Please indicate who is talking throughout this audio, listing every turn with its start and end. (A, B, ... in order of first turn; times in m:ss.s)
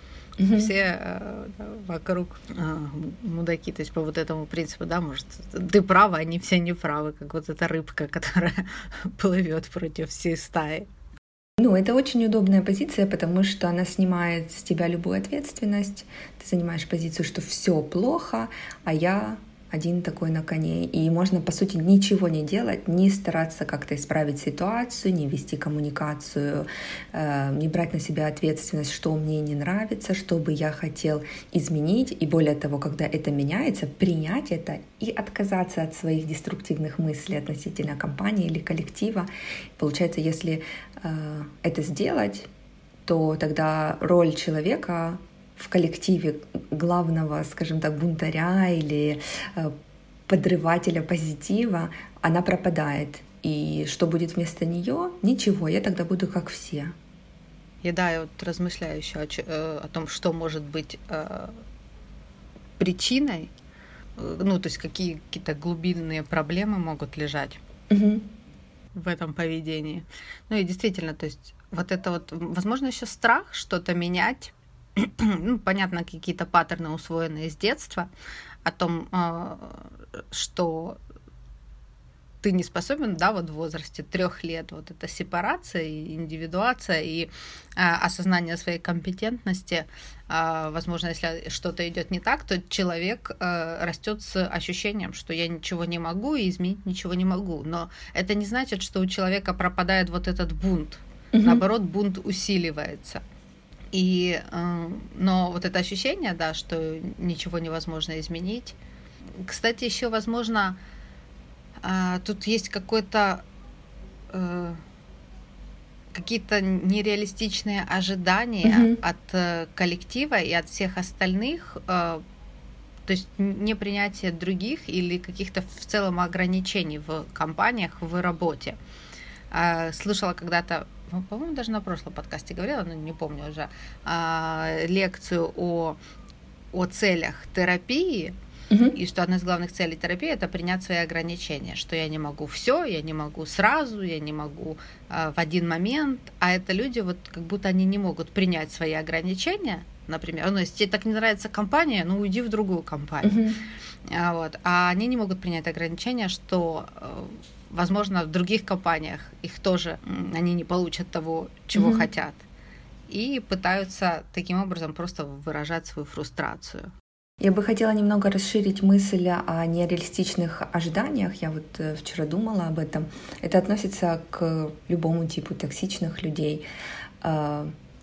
0:00.4-0:00.7 A
0:00.5-0:10.9 B
0:11.6-0:42.5 A
0:43.0-0:49.7 A
0:50.3-0:56.9 A
0:57.8-1:01.6 B
1:02.8-1:03.5 B
1:04.2-1:07.6 B
1:07.9-1:08.3 A
1:08.9-1:18.1 B
1:18.6-1:21.0 B
1:22.4-1:43.2 B
1:41.3-1:41.6 A
1:43.9-1:48.8 B
1:49.4-1:50.8 B
1:51.8-1:53.4 B
1:54.3-1:54.8 B
1:56.1-2:02.2 B
1:58.6-1:59.0 A
2:03.1-2:08.8 B
2:09.5-2:16.0 B
2:16.7-2:18.3 B
2:18.7-2:18.9 A
2:18.9-2:33.4 B
2:33.2-2:33.6 A
2:34.1-2:42.4 B
2:41.7-2:42.0 A
2:43.1-2:46.9 B
2:47.4-2:56.6 A
2:57.2-2:57.7 A